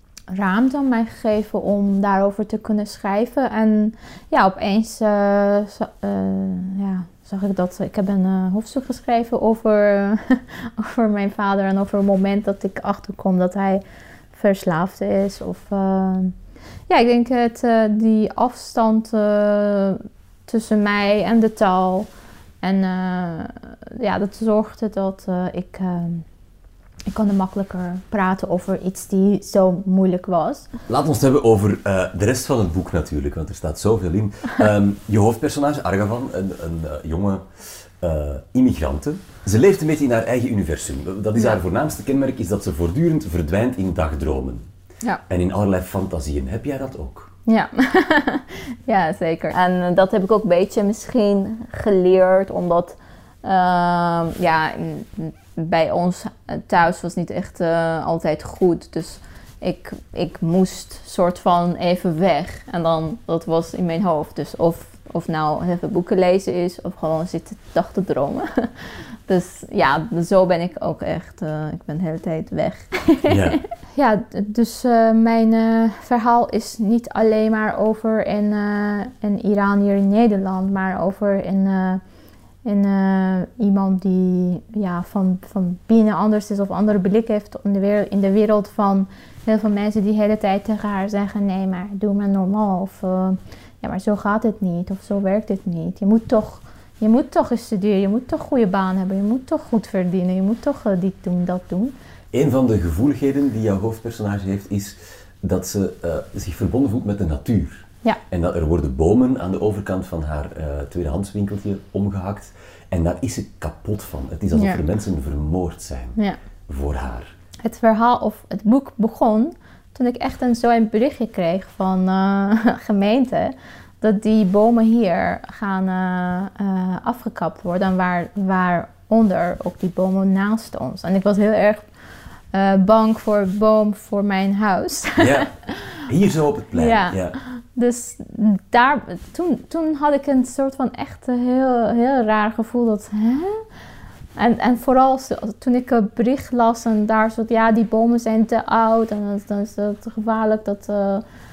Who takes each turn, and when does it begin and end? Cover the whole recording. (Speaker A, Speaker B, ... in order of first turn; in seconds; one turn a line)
Speaker A: 0.3-16.3
Speaker A: 16.9-22.1
Speaker A: 22.6-26.2
Speaker A: 27.1-30.7
Speaker B: 30.9-44.7
Speaker B: 45.3-47.3
Speaker A: 47.5-82.0
Speaker B: 73.3-73.6
Speaker A: 82.6-101.9
Speaker B: 102.3-116.2
Speaker A: 114.5-114.8
Speaker B: 116.7-117.3
Speaker A: 117.6-131.9
Speaker A: 132.5-135.5
Speaker B: 135.2-135.5
Speaker B: 136.0-137.4
Speaker A: 136.7-143.6
Speaker A: 144.3-151.2